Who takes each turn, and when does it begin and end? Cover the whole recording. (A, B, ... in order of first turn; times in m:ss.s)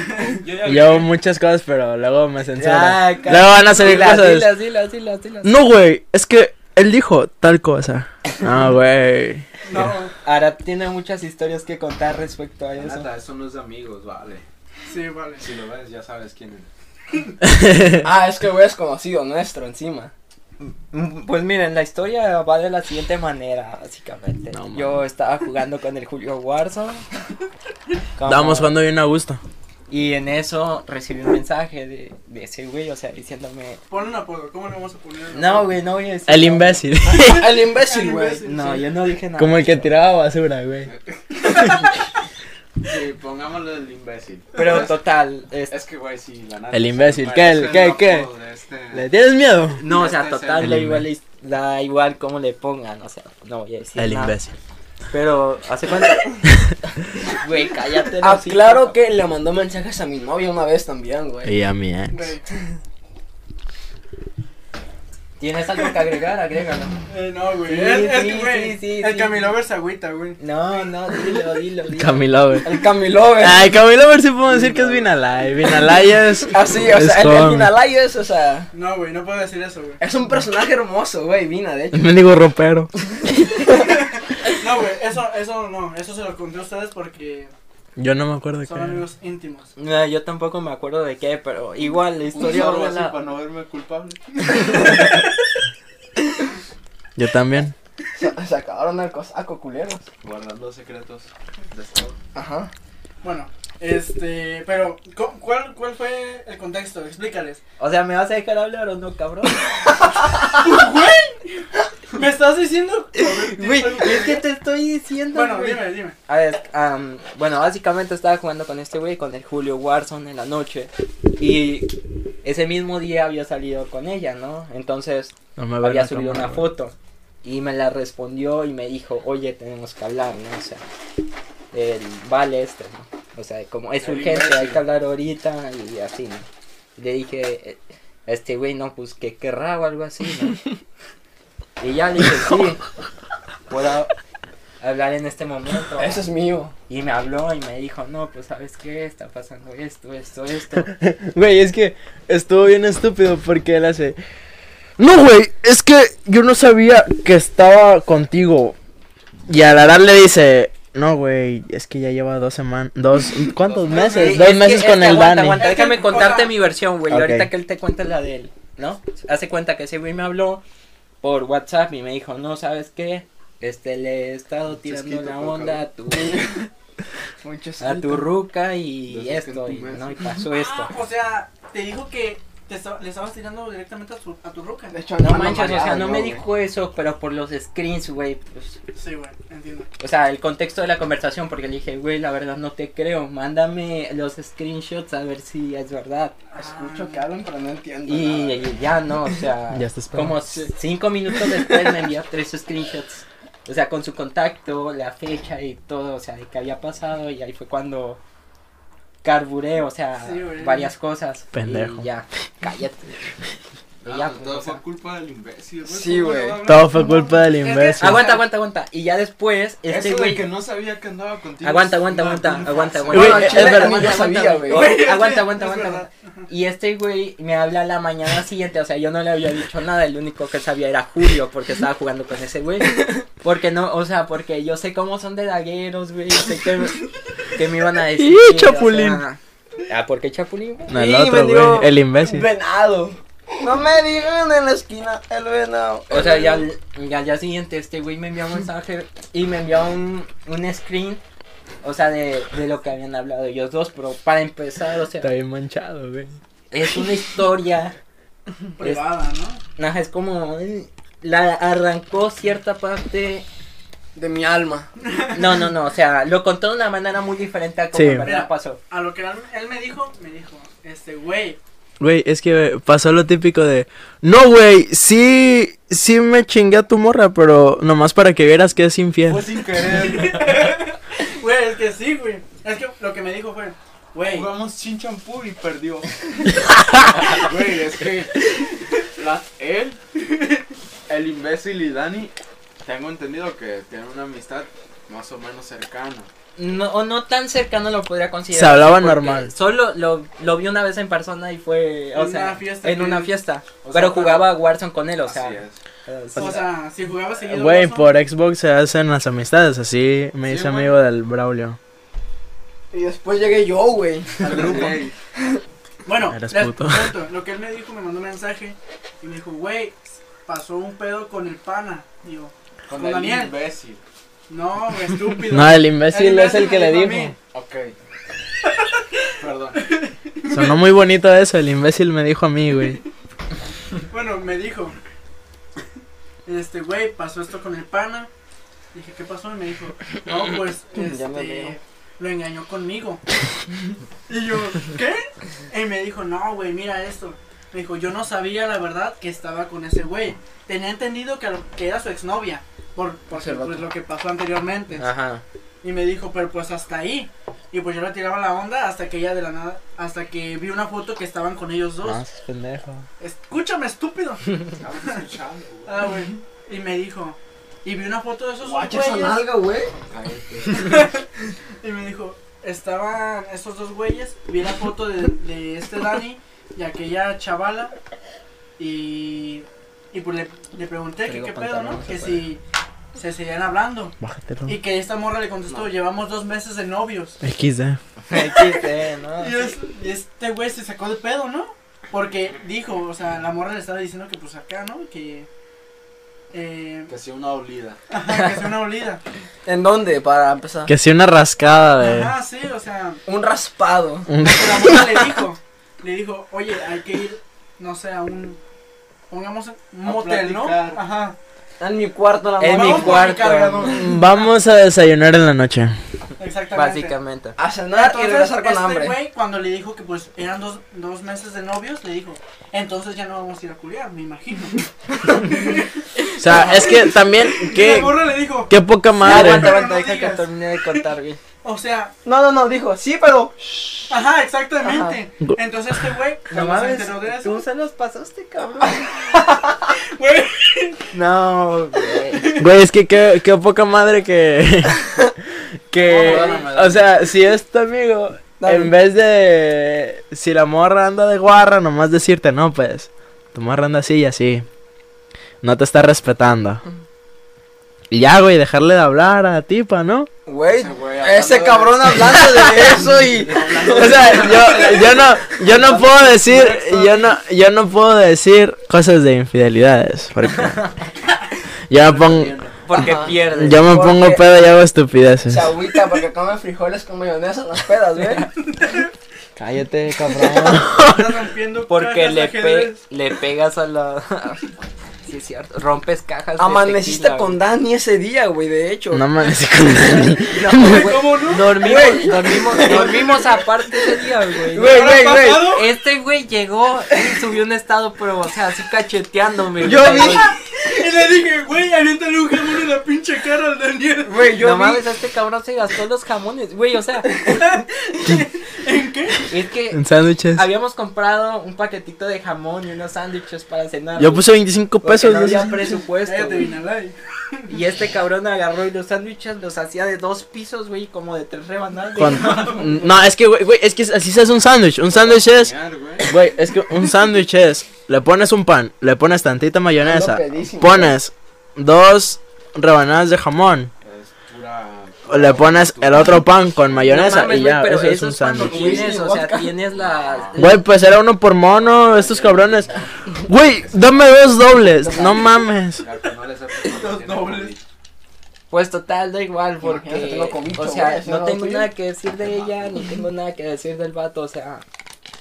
0:00.2-0:01.1 A
0:00.6-0:04.5 B
0:02.6-0:05.6 C
0:05.4-0:09.5 B
0:09.6-0:10.1 D
0:10.2-0:13.1 C
0:12.8-0:14.4 A
0:14.9-0:15.4 D
0:15.4-0:16.7 A
0:17.4-0:18.1 B
0:18.0-0:20.1 E
0:20.6-0:27.0 C
0:24.5-0:25.0 B
0:28.2-0:28.8 C
0:28.2-0:29.4 B
0:29.9-0:33.8 C
0:33.9-0:35.7 D
0:35.3-0:36.8 C
0:36.3-0:37.6 B
0:37.1-0:38.4 E
0:37.7-0:38.9 D
0:38.4-0:39.9 C
0:39.4-0:40.9 B
0:40.8-0:41.7 A
0:42.8-0:45.0 A
0:44.5-0:45.8 C
0:44.6-0:44.9 D
0:45.7-0:49.1 A
0:46.7-0:48.3 B
0:48.9-0:49.8 B
0:49.8-0:54.4 C
0:49.8-0:50.8 A
0:50.6-0:51.1 B
0:54.0-0:54.5 B
0:55.1-0:56.4 C
0:57.0-0:58.9 C
0:58.2-1:01.5 E
1:01.4-1:02.3 B
1:02.1-1:02.4 D
1:05.4-1:07.0 C
1:07.1-1:10.4 D
1:07.7-1:09.5 C
1:10.4-1:12.2 C
1:12.0-1:17.7 B
1:12.6-1:13.7 E
1:14.5-1:15.0 E
1:16.5-1:18.7 E
1:18.7-1:20.0 D
1:20.0-1:22.2 E
1:21.9-1:22.9 B
1:23.4-1:23.8 E
1:23.7-1:27.5 D
1:28.0-1:29.0 B
1:28.7-1:29.7 D
1:29.8-1:33.2 C
1:32.3-1:35.0 A
1:37.2-1:37.8 B
1:38.2-1:40.1 E
1:40.2-1:42.2 A
1:42.3-1:42.7 E
1:43.2-1:47.6 D
1:47.8-1:49.7 C
1:50.5-1:54.4 D
1:53.2-2:10.8 C
1:55.3-1:56.2 D
2:05.6-2:06.7 B
2:11.7-2:20.6 C
2:14.0-2:14.8 A
2:21.8-2:22.8 C
2:23.7-2:24.1 C
2:24.8-2:26.2 C
2:26.0-2:26.7 E
2:26.9-2:30.9 C
2:30.8-2:34.2 B
2:35.0-2:38.8 B
2:39.5-2:45.6 B
2:43.8-2:44.6 D
2:44.1-2:50.6 C
2:45.5-2:46.6 D
2:47.1-2:47.5 B
2:51.2-2:56.4 C
2:54.9-2:56.6 E
2:57.4-2:58.3 E
2:57.8-3:00.9 C
2:59.1-3:00.2 A
3:00.5-3:05.0 D
3:04.9-3:06.4 E
3:05.2-3:08.8 C
3:09.0-3:09.9 D
3:10.0-3:16.4 C
3:16.5-3:17.3 D
3:16.6-3:18.7 E
3:18.1-3:28.2 C
3:19.7-3:20.4 B
3:29.2-3:33.3 C
3:30.2-3:30.9 D
3:31.5-3:32.0 B
3:34.0-3:37.0 A
3:34.0-3:34.8 C
3:35.8-3:36.8 E
3:36.6-3:38.2 B
3:36.7-3:38.5 D
3:38.0-3:40.5 C
3:39.9-3:43.3 A
3:41.6-4:00.9 C
3:43.1-3:44.9 E
3:43.1-3:44.2 B
3:44.7-3:46.1 D
3:52.9-3:53.2 E
3:58.2-3:59.2 B
4:00.9-4:02.5 B
4:00.9-4:06.7 E
4:06.1-4:11.2 C
4:11.8-4:15.3 C
4:15.2-4:16.4 B
4:16.7-4:18.0 C
4:18.8-4:19.6 D
4:19.8-4:23.5 C
4:24.2-4:24.9 E
4:25.3-4:28.8 C
4:27.9-4:28.3 B
4:28.2-4:31.6 D
4:32.0-4:39.4 B
4:39.3-4:40.7 A
4:39.7-4:44.5 D
4:44.2-4:46.1 A
4:47.2-4:48.4 A
4:49.2-4:50.0 A
4:51.1-4:52.3 A
4:52.8-4:56.3 A
4:56.6-5:06.7 C
4:58.5-4:59.5 B
5:02.1-5:03.3 D
5:03.8-5:04.6 A
5:05.2-5:05.8 A
5:06.4-5:08.1 D
5:07.5-5:11.8 B
5:10.5-5:11.0 A
5:12.9-5:15.6 E
5:14.4-5:15.1 A
5:16.1-5:23.6 D
5:16.3-5:17.1 B
5:22.9-5:24.0 A
5:24.5-5:27.3 D
5:25.4-5:27.3 B
5:27.5-5:27.9 A
5:29.4-5:29.9 A
5:29.9-5:30.7 D
5:30.5-5:33.0 B
5:34.1-5:35.0 D
5:36.5-5:38.3 D
5:38.9-5:43.2 D
5:40.9-5:41.8 E
5:44.3-5:55.1 D
5:53.3-5:53.8 E
5:55.0-5:55.4 C
5:55.8-6:02.2 D
6:02.0-6:03.0 B
6:03.2-6:05.2 D
6:04.8-6:06.0 A
6:05.9-6:09.4 D
6:08.6-6:09.9 E
6:10.1-6:11.0 A
6:10.7-6:11.2 D
6:11.8-6:18.0 D
6:18.8-6:22.6 D
6:21.2-6:22.5 C
6:23.2-6:24.1 D
6:24.2-6:24.8 B
6:24.7-6:27.4 D
6:27.4-6:28.0 B
6:28.3-6:29.7 C
6:28.4-6:28.9 D
6:29.4-6:35.5 D
6:36.5-6:37.1 D
6:37.1-6:38.0 A
6:38.1-6:39.2 D
6:39.7-6:40.9 E
6:40.9-6:42.3 B
6:42.0-6:43.2 D
6:43.3-6:45.1 E
6:44.3-6:45.2 B
6:44.4-6:48.6 D
6:49.3-6:51.4 D
6:50.0-6:51.0 A
6:51.8-6:53.4 E
6:52.6-6:54.0 C
6:52.7-6:54.5 D
6:53.8-6:56.0 B
6:56.4-6:57.2 D
6:56.7-6:57.6 C
6:57.6-6:59.2 E
6:57.9-7:05.9 D
7:06.4-7:07.2 E
7:06.4-7:09.8 B
7:07.6-7:11.0 D
7:09.2-7:11.4 C
7:11.6-7:12.1 D
7:12.2-7:14.0 E
7:14.1-7:17.6 D
7:14.8-7:15.2 E
7:16.5-7:19.0 C
7:19.1-7:21.0 D
7:21.1-7:22.5 C
7:22.3-7:22.7 D
7:22.6-7:34.7 B
7:26.0-7:27.1 A
7:26.2-7:26.6 D
7:28.6-7:28.9 E
7:35.6-7:36.8 B
7:38.1-7:40.3 B
7:40.5-7:45.0 E
7:40.7-7:45.5 A
7:42.3-7:42.8 B
7:43.9-7:50.8 B
7:45.7-7:47.0 E
7:51.9-7:52.6 B
7:52.1-7:52.7 D
7:52.8-7:53.9 C
7:52.9-7:54.7 E
7:53.5-7:55.7 B
7:55.5-7:58.5 E
7:59.6-8:01.3 B
8:00.6-8:03.0 D
8:01.9-8:04.7 C
8:05.3-8:07.6 C
8:06.6-8:09.6 E
8:09.1-8:11.0 B
8:10.5-8:20.5 C
8:10.6-8:11.8 D
8:11.7-8:13.6 E
8:12.9-8:13.2 D
8:14.7-8:15.8 E
8:14.8-8:15.8 D
8:19.8-8:20.6 E
8:20.0-8:24.4 D
8:24.2-8:25.0 E
8:24.6-8:27.5 C
8:27.4-8:29.4 D
8:29.5-8:30.0 C
8:29.9-8:30.6 B
8:30.5-8:34.4 C
8:34.2-8:35.9 B
8:35.0-8:36.7 C
8:36.2-8:37.7 D
8:37.7-8:43.1 C
8:42.2-8:45.7 B
8:42.2-8:42.8 D
8:45.1-8:46.3 A
8:46.3-8:53.9 B
8:50.0-8:51.2 E
8:54.0-8:57.1 A
8:55.3-8:58.9 B
8:57.0-9:00.9 C
8:58.5-8:59.8 E
8:58.7-8:59.0 A
8:59.9-9:00.6 A
9:00.6-9:02.9 B
9:01.8-9:03.1 A
9:03.5-9:06.0 B
9:03.8-9:04.2 A
9:05.0-9:05.4 E
9:05.9-9:07.8 A
9:06.8-9:07.7 D
9:08.7-9:14.8 C
9:09.8-9:11.9 E